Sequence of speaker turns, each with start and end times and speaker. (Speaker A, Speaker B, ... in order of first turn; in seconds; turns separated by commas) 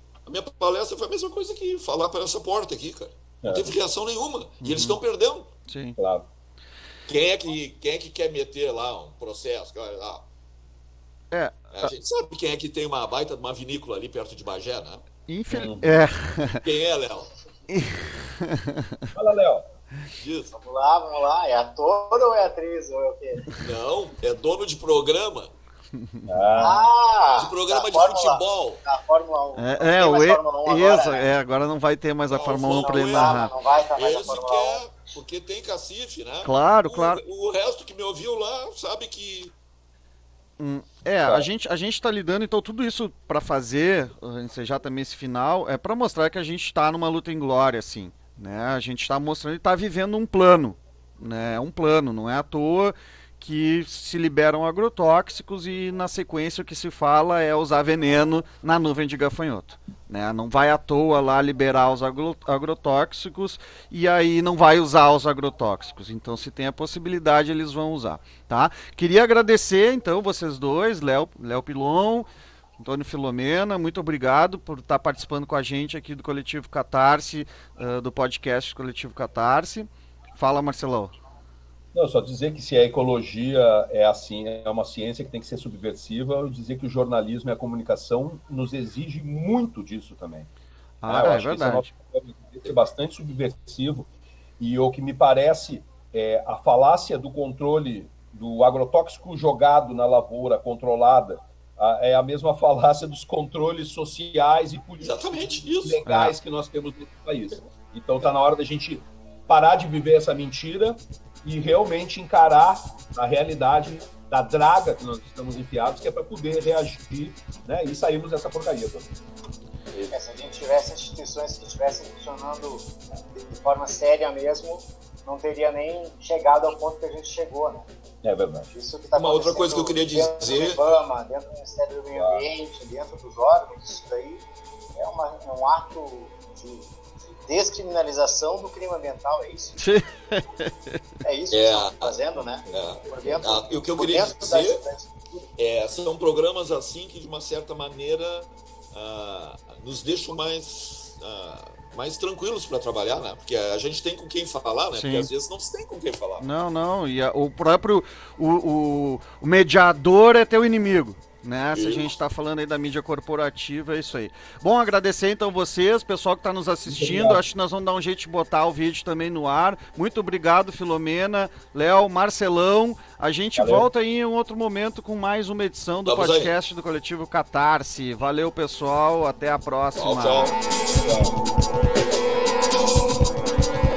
Speaker A: 0.3-5.5, Speaker B: 3.4-3.7, Speaker C: 4.6-5.0, Speaker C: 5.7-6.0, Speaker B: 6.0-6.3, Speaker A: 7.1-10.3, Speaker C: 11.3-11.9, Speaker A: 11.7-15.1, Speaker C: 15.3-16.6, Speaker B: 15.5-16.0, Speaker A: 16.6-17.3, Speaker C: 17.7-19.1, Speaker B: 19.1-19.6, Speaker A: 20.1-20.5, Speaker D: 20.5-23.5, Speaker A: 23.6-25.5, Speaker C: 26.0-26.3, Speaker B: 26.3-26.9, Speaker D: 26.6-31.3, Speaker A: 27.4-28.8, Speaker C: 29.6-33.5, Speaker A: 32.3-39.5, Speaker D: 32.5-34.8, Speaker C: 36.4-37.2, Speaker C: 40.6-72.3, Speaker C: 72.8-81.1, Speaker B: 81.9-90.5, Speaker C: 91.0-91.9, Speaker B: 91.0-94.1, Speaker B: 94.6-119.1, Speaker A: 105.0-106.0, Speaker C: 106.0-106.3, Speaker D: 120.1-127.9, Speaker B: 128.2-128.7, Speaker D: 128.7-139.8, Speaker A: 129.1-130.8, Speaker B: 132.1-132.4, Speaker C: 139.8-141.0, Speaker D: 141.2-145.5, Speaker A: 141.5-144.8, Speaker A: 145.6-156.5, Speaker C: 154.9-155.3, Speaker C: 156.4-180.5, Speaker A: 161.7-162.1, Speaker B: 166.9-167.4, Speaker B: 173.6-173.9, Speaker A: 176.1-176.5, Speaker A: 179.9-180.6, Speaker B: 181.0-181.4